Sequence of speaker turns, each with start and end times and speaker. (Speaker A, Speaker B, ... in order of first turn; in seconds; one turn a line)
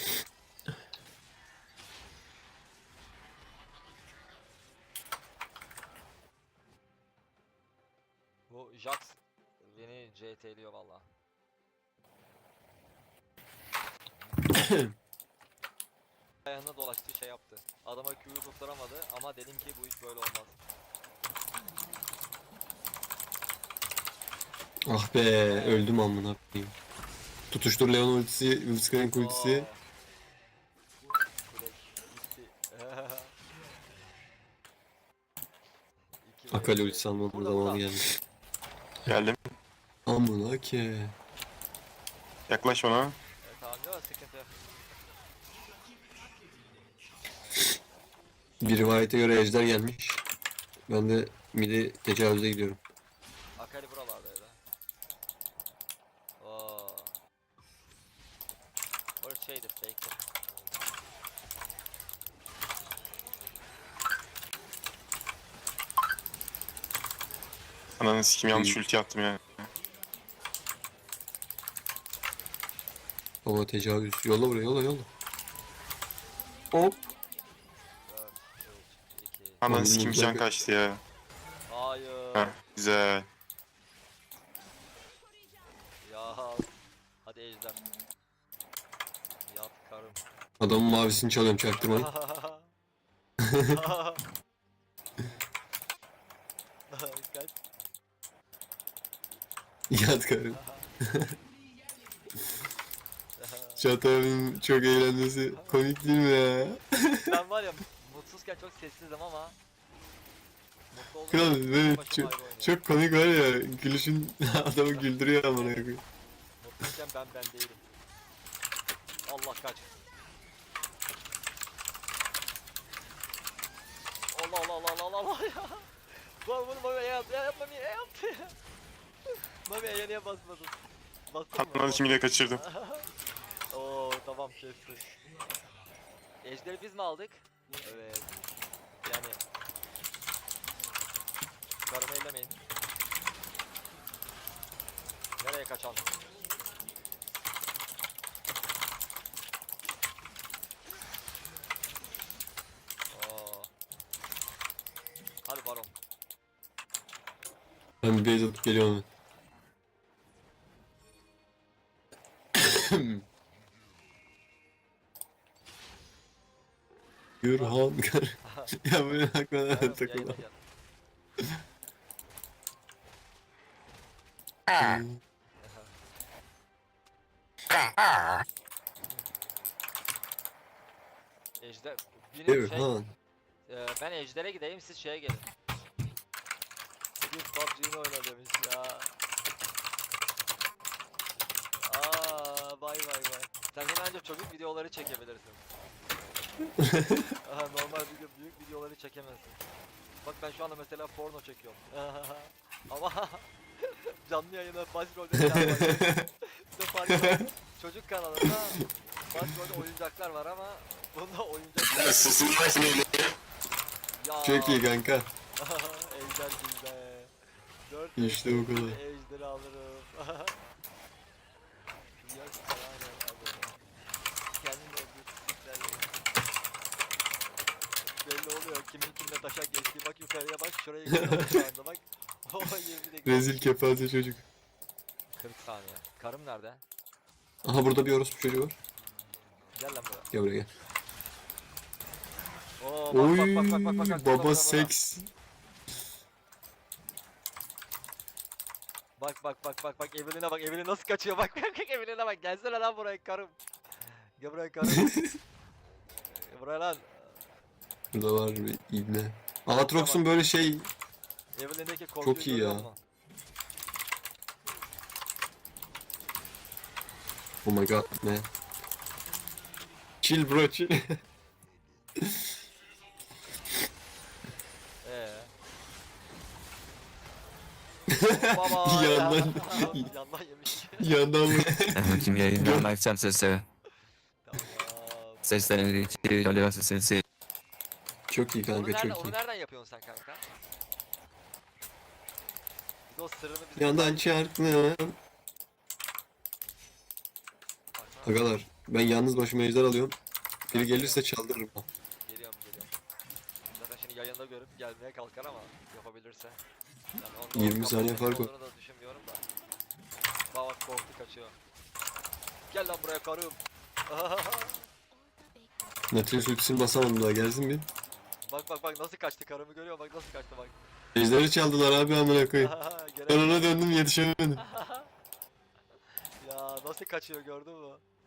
Speaker A: 8.5-11.1
Speaker B: 14.5-14.9
Speaker A: 16.4-20.6
Speaker B: 24.9-26.7
Speaker A: 25.5-25.9
Speaker B: 27.5-29.7
Speaker A: 29.1-29.8
Speaker A: 31.5-33.3
Speaker A: 36.2-37.9
Speaker B: 36.5-38.1
Speaker C: 39.1-39.4
Speaker B: 40.0-41.1
Speaker C: 42.5-43.2
Speaker A: 43.4-44.5
Speaker B: 48.6-50.2
Speaker B: 50.9-52.8
Speaker A: 53.6-54.6
Speaker A: 56.4-57.1
Speaker A: 59.2-60.2
Speaker C: 68.0-69.7
Speaker B: 68.5-68.8
Speaker B: 73.4-75.1
Speaker B: 76.7-77.0
Speaker A: 78.0-79.6
Speaker C: 79.6-81.0
Speaker B: 79.7-80.4
Speaker A: 81.7-82.5
Speaker C: 82.3-83.3
Speaker A: 86.0-86.7
Speaker A: 87.2-87.8
Speaker A: 89.4-90.2
Speaker B: 90.6-92.1
Speaker A: 91.8-92.7
Speaker B: 93.4-93.7
Speaker A: 93.6-94.2
Speaker A: 96.9-97.5
Speaker B: 99.9-101.3
Speaker A: 100.5-100.9
Speaker A: 103.4-103.9
Speaker B: 103.8-107.3
Speaker A: 105.5-105.8
Speaker A: 107.2-109.6
Speaker A: 110.9-112.8
Speaker B: 111.3-116.0
Speaker A: 115.0-115.8
Speaker A: 116.6-117.8
Speaker A: 119.2-119.9
Speaker A: 124.3-128.5
Speaker A: 129.7-130.8
Speaker A: 131.3-133.1
Speaker C: 131.5-132.6
Speaker A: 133.7-135.1
Speaker A: 136.4-138.3
Speaker A: 139.0-139.4
Speaker A: 141.9-142.6
Speaker A: 145.4-146.1
Speaker A: 153.1-153.7
Speaker A: 155.4-155.9
Speaker B: 158.0-159.1
Speaker B: 162.6-163.2
Speaker B: 167.4-170.4
Speaker A: 167.5-167.8
Speaker A: 168.4-168.7
Speaker A: 169.7-170.6
Speaker B: 174.8-175.2
Speaker A: 175.6-175.9
Speaker A: 181.6-182.9
Speaker B: 182.5-183.1
Speaker A: 183.7-185.5
Speaker A: 187.2-189.1
Speaker A: 191.8-195.6
Speaker B: 196.8-197.2
Speaker A: 197.4-199.6
Speaker A: 200.2-206.2
Speaker B: 205.4-206.3
Speaker A: 206.7-212.9
Speaker B: 207.1-207.5
Speaker A: 214.1-214.9
Speaker B: 214.4-215.3
Speaker A: 215.6-217.3
Speaker A: 217.8-220.6
Speaker B: 218.2-219.0
Speaker A: 222.2-223.8
Speaker A: 224.5-226.2
Speaker A: 228.2-233.6
Speaker B: 231.1-231.6
Speaker B: 233.2-234.4
Speaker A: 235.4-236.8
Speaker B: 237.6-238.8
Speaker A: 239.7-240.3
Speaker B: 240.3-240.7
Speaker A: 242.8-244.9
Speaker B: 243.1-245.3
Speaker A: 249.2-253.6
Speaker A: 254.4-255.1
Speaker B: 254.9-255.3
Speaker A: 256.3-257.4
Speaker B: 258.1-260.9
Speaker A: 259.8-260.3
Speaker A: 261.6-263.0
Speaker B: 262.2-262.9
Speaker B: 267.6-268.5
Speaker B: 270.2-271.2
Speaker B: 272.2-272.5
Speaker A: 275.0-275.5
Speaker B: 278.1-280.1
Speaker A: 278.2-281.1
Speaker B: 281.0-282.9
Speaker D: 281.9-283.6
Speaker A: 284.4-286.4
Speaker D: 285.4-287.2
Speaker B: 288.3-289.4
Speaker A: 288.7-290.4
Speaker A: 293.1-294.3
Speaker B: 293.8-295.1
Speaker A: 297.9-298.5
Speaker B: 298.2-300.2
Speaker B: 300.7-301.8
Speaker A: 300.7-301.3
Speaker A: 302.2-302.9
Speaker A: 303.7-306.6
Speaker A: 307.1-309.4
Speaker B: 307.5-308.5
Speaker A: 310.5-311.6
Speaker A: 312.7-314.9
Speaker B: 316.1-317.9
Speaker A: 318.5-320.7
Speaker B: 321.1-322.8
Speaker A: 322.6-323.8
Speaker B: 323.3-324.6
Speaker A: 324.6-325.1
Speaker A: 326.4-328.0